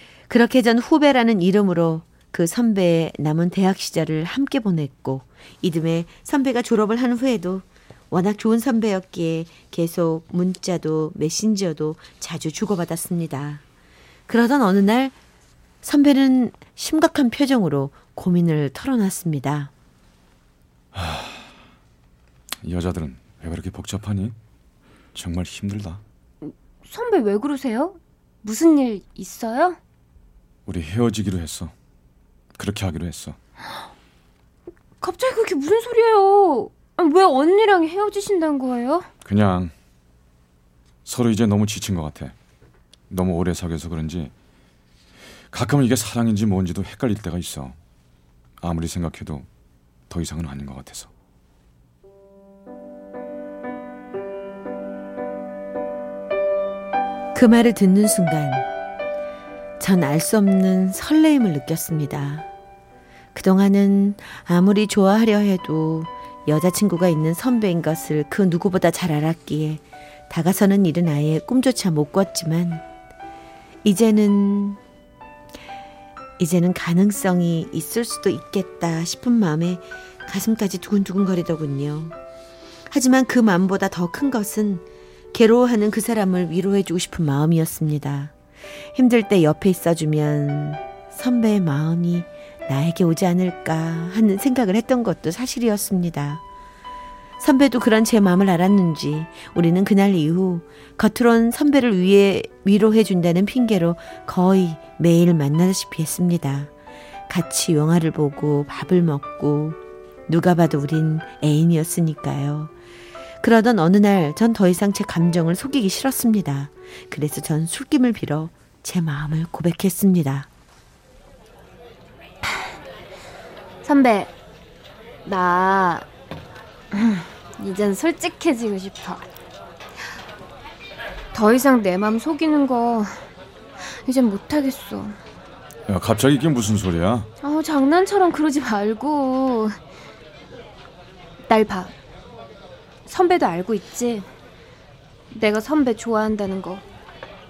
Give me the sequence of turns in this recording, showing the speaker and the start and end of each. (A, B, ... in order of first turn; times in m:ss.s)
0:00.3-0:13.6 A
0:14.3-0:15.2 A
0:15.8-0:19.7 A
0:20.9-0:21.5 B
0:22.6-0:24.3 B
0:25.1-0:26.0 B
0:26.4-0:29.8 C
0:30.7-0:31.7 B
0:32.6-0:33.4 B
0:35.0-0:39.1 C
0:39.2-0:39.7 B
0:41.0-0:42.3 B
0:43.1-0:44.3 B
0:45.5-0:47.8 B
0:48.6-0:49.4 B
0:50.1-0:51.1 B
0:57.3-0:58.7 A
0:59.8-1:02.5 A
1:03.3-1:12.8 A
1:13.8-1:14.8 A
1:16.4-1:22.1 A
1:22.9-1:28.3 A
1:28.9-1:36.4 A
1:37.4-1:46.7 A
1:47.3-1:52.7 A
1:53.4-2:00.5 A
2:03.8-2:04.3 C
2:05.2-2:06.1 C
2:06.9-2:09.3 C
2:11.3-2:13.2 C
2:13.8-2:15.2 C
2:15.9-2:17.3 B
2:17.4-2:19.8 C
2:21.5-2:21.9 C
2:23.1-2:24.2 C
2:25.3-2:26.8 C